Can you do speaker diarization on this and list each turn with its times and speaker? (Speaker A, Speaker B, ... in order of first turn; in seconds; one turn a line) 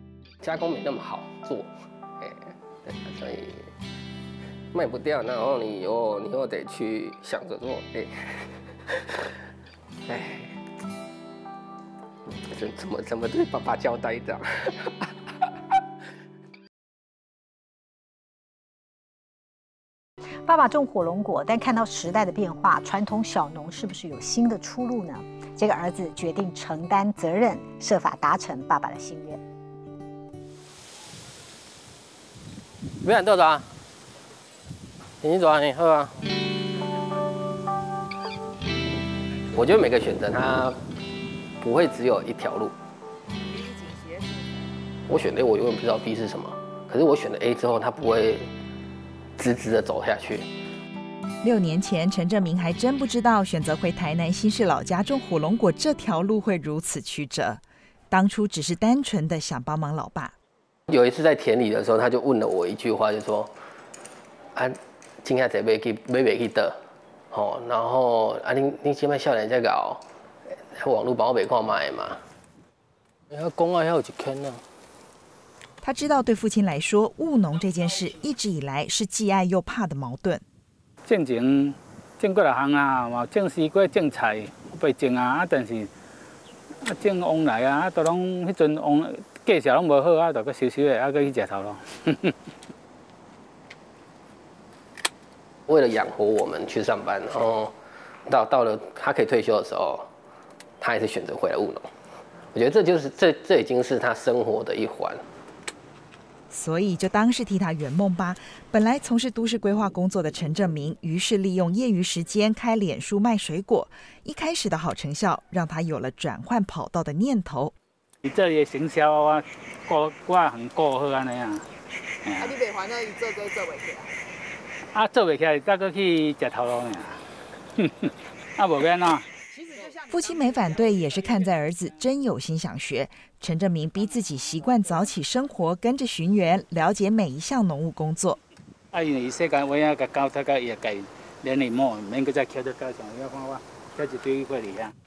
Speaker A: 0.4-1.7
Speaker A: 2.2-3.7
Speaker A: 4.7-9.2
Speaker A: 10.1-10.6
Speaker A: 12.5-15.1
Speaker B: 20.4-29.4
Speaker A: 33.0-33.7
Speaker A: 35.2-36.2
Speaker A: 39.5-40.8
Speaker A: 41.6-42.7
Speaker C: 43.6-44.2
Speaker A: 45.1-48.5
Speaker A: 49.4-50.5
Speaker D: 51.4-60.3
Speaker A: 60.9-63.5
Speaker A: 64.5-66.8
Speaker A: 67.3-70.0
Speaker A: 70.7-72.2
Speaker A: 73.3-74.6
Speaker D: 75.8-80.4
Speaker E: 81.0-85.9
Speaker E: 86.8-92.3
Speaker A: 95.7-97.7
Speaker A: 98.3-100.1
Speaker A: 100.8-101.9
Speaker A: 102.5-105.2
Speaker D: 106.5-117.7
Speaker E: 118.2-121.7
Speaker E: 122.2-122.6
Speaker C: 122.5-124.1
Speaker E: 124.9-127.2
Speaker E: 127.8-129.3
Speaker D: 130.0-138.4
Speaker E: 138.9-144.9